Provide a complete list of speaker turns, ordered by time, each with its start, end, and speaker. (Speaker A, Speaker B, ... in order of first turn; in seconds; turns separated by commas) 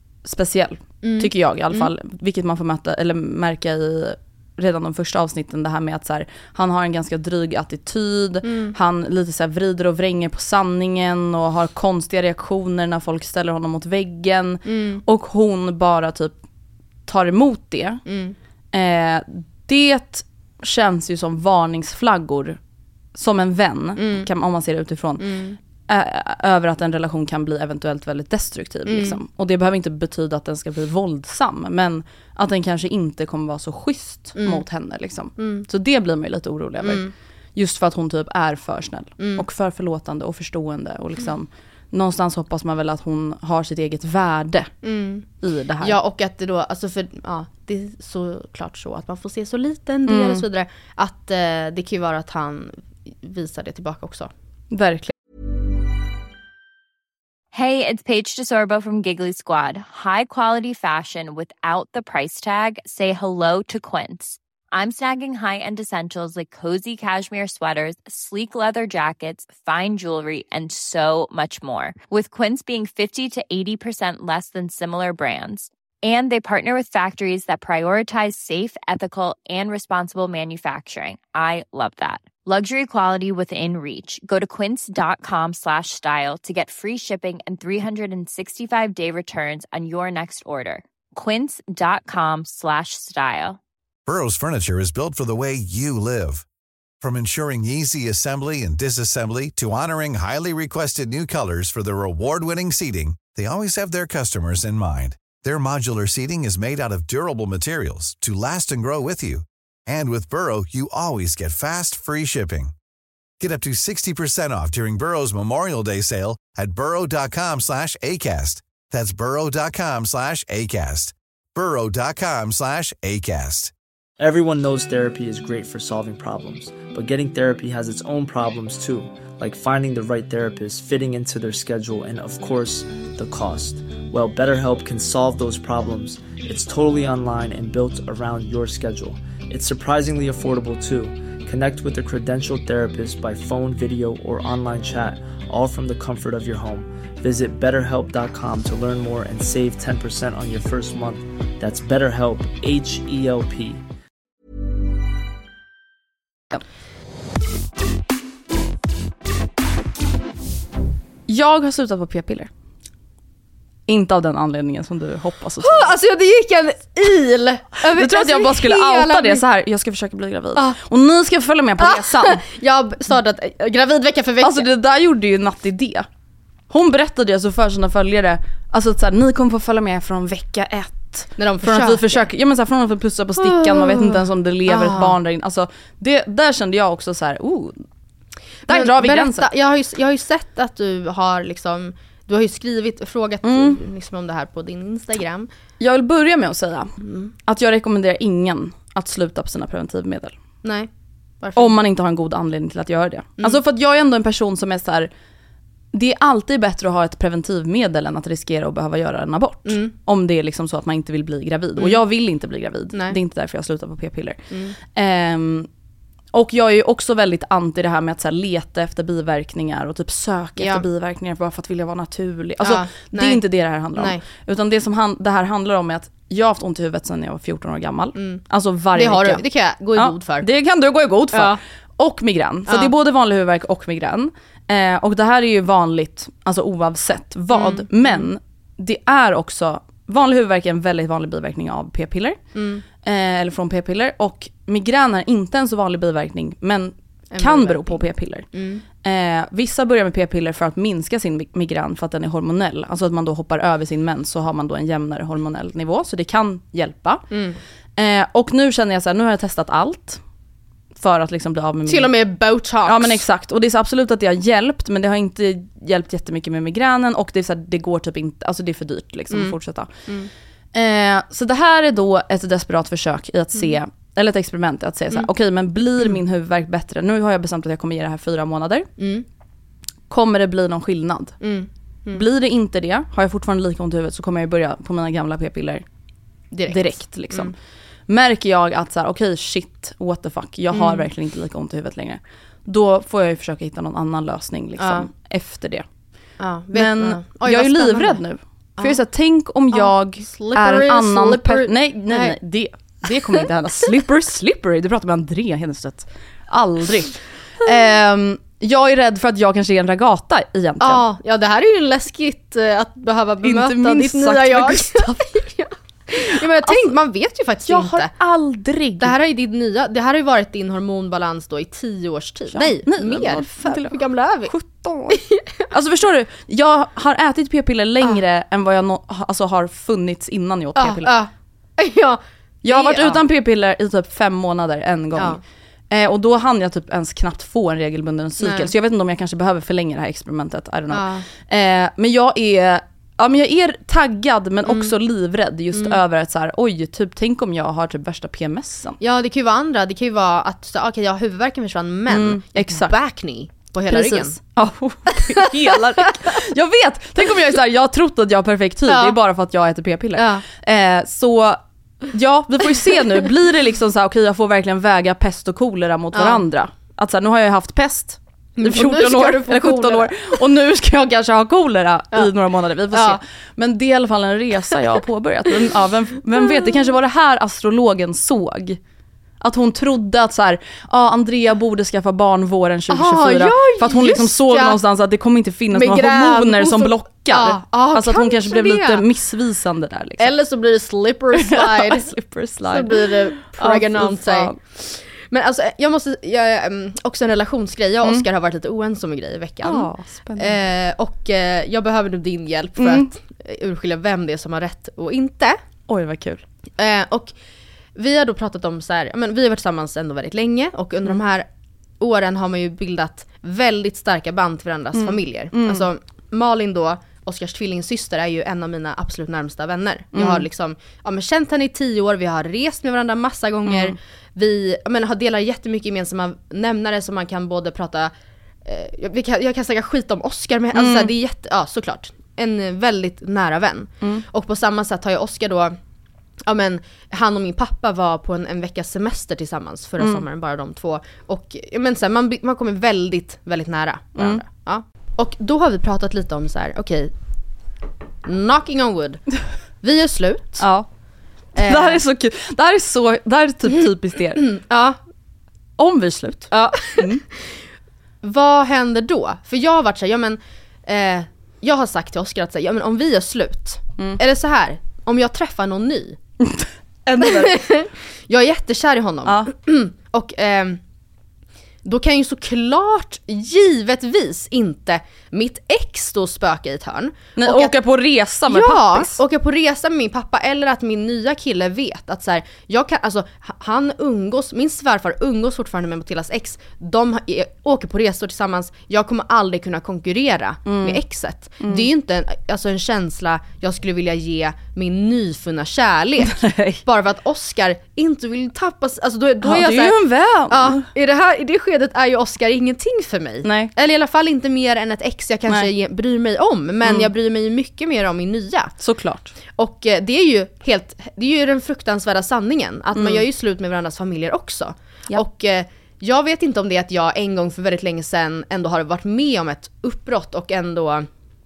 Speaker A: 0.2-16.4, Speaker B: 1.0-1.9, Speaker B: 8.4-8.7, Speaker B: 14.6-15.0, Speaker A: 17.1-18.0, Speaker B: 18.1-18.3, Speaker A: 18.7-22.6, Speaker A: 23.1-25.2, Speaker B: 24.0-24.3, Speaker B: 25.2-25.6, Speaker A: 25.9-37.0, Speaker B: 28.9-29.2, Speaker B: 34.4-34.6, Speaker B: 35.4-35.6, Speaker B: 36.8-37.1, Speaker A: 37.5-44.7, Speaker B: 39.2-39.5, Speaker B: 44.8-45.2, Speaker A: 45.4-46.0, Speaker B: 45.8-54.3, Speaker A: 50.0-50.4, Speaker A: 54.7-55.1, Speaker C: 57.5-93.6, Speaker D: 94.0-96.4, Speaker D: 97.0-112.7, Speaker D: 113.4-123.7, Speaker E: 124.2-153.8, Speaker A: 161.3-162.5, Speaker A: 163.9-165.9, Speaker B: 165.6-169.4, Speaker A: 167.8-172.4, Speaker B: 171.8-174.7, Speaker A: 174.4-176.1, Speaker A: 176.7-187.8, Speaker B: 181.4-182.2, Speaker B: 183.4-185.2, Speaker A: 188.7-189.5, Speaker B: 188.7-195.5, Speaker A: 193.4-193.8, Speaker A: 195.8-196.9, Speaker B: 197.0-197.3, Speaker A: 197.4-200.3, Speaker B: 200.6-200.9, Speaker B: 201.4-201.8, Speaker A: 201.5-205.1, Speaker A: 205.9-215.7, Speaker B: 209.7-209.9, Speaker B: 214.5-214.8, Speaker A: 216.3-229.4, Speaker B: 220.6-220.8, Speaker B: 222.6-223.4, Speaker B: 223.9-224.2, Speaker B: 228.2-228.4, Speaker B: 228.9-230.5, Speaker A: 229.9-242.4, Speaker B: 231.3-231.6, Speaker B: 232.7-232.9, Speaker B: 237.5-238.3, Speaker B: 242.5-242.8, Speaker A: 242.9-257.2, Speaker B: 247.3-248.8, Speaker B: 257.3-257.6, Speaker A: 258.0-260.2, Speaker A: 260.9-262.1, Speaker B: 261.9-263.2, Speaker A: 262.8-269.9, Speaker B: 269.3-270.3, Speaker A: 270.7-278.9, Speaker B: 279.0-279.2, Speaker A: 280.1-281.4, Speaker B: 281.4-282.2, Speaker A: 282.1-285.8, Speaker B: 286.5-287.5, Speaker A: 286.7-287.5, Speaker A: 288.1-295.9, Speaker B: 290.7-291.1, Speaker B: 294.8-295.1, Speaker B: 296.4-298.2, Speaker A: 296.7-311.0, Speaker B: 298.8-299.0, Speaker B: 299.7-302.4, Speaker B: 310.8-318.1, Speaker A: 313.4-315.4, Speaker A: 316.6-316.9, Speaker A: 317.6-319.1, Speaker B: 319.0-324.5, Speaker A: 322.5-331.1, Speaker B: 325.1-325.7, Speaker B: 330.8-333.2, Speaker A: 332.6-349.0, Speaker B: 335.1-335.4, Speaker B: 338.4-338.7, Speaker B: 340.9-341.2, Speaker B: 344.6-344.9, Speaker B: 349.0-354.4, Speaker A: 352.1-352.9, Speaker A: 353.9-378.8, Speaker B: 355.1-355.5, Speaker B: 356.0-356.3, Speaker B: 358.9-359.1, Speaker B: 360.1-360.4, Speaker B: 366.1-366.4, Speaker B: 368.6-370.4, Speaker B: 372.9-373.2, Speaker A: 379.4-390.3, Speaker B: 382.9-384.8, Speaker B: 385.7-389.0, Speaker B: 390.2-392.1, Speaker A: 391.4-394.6, Speaker B: 392.6-405.6, Speaker A: 399.6-400.6, Speaker A: 402.8-403.1, Speaker A: 405.9-406.4, Speaker B: 406.8-407.3, Speaker B: 407.9-411.5, Speaker B: 412.0-428.1, Speaker A: 414.9-415.9, Speaker A: 420.1-420.4, Speaker A: 423.6-423.9, Speaker B: 428.6-435.8, Speaker A: 430.7-431.1, Speaker B: 436.5-447.1, Speaker A: 440.0-440.2, Speaker A: 444.2-444.4, Speaker B: 448.2-449.2, Speaker B: 449.8-450.7, Speaker A: 450.6-450.9, Speaker B: 451.5-452.0, Speaker A: 451.6-454.4, Speaker B: 454.4-455.0, Speaker A: 455.8-457.2, Speaker B: 456.5-457.6, Speaker B: 458.2-466.2, Speaker A: 466.4-467.6, Speaker B: 467.2-470.8, Speaker A: 469.2-469.5, Speaker B: 471.8-477.7, Speaker A: 477.4-479.2, Speaker B: 478.5-508.7, Speaker A: 490.6-491.0, Speaker A: 491.6-491.9, Speaker A: 496.3-496.8, Speaker A: 499.4-500.9, Speaker A: 503.4-503.7, Speaker A: 506.8-507.1, Speaker A: 508.8-509.3, Speaker B: 509.6-521.1, Speaker A: 512.9-513.2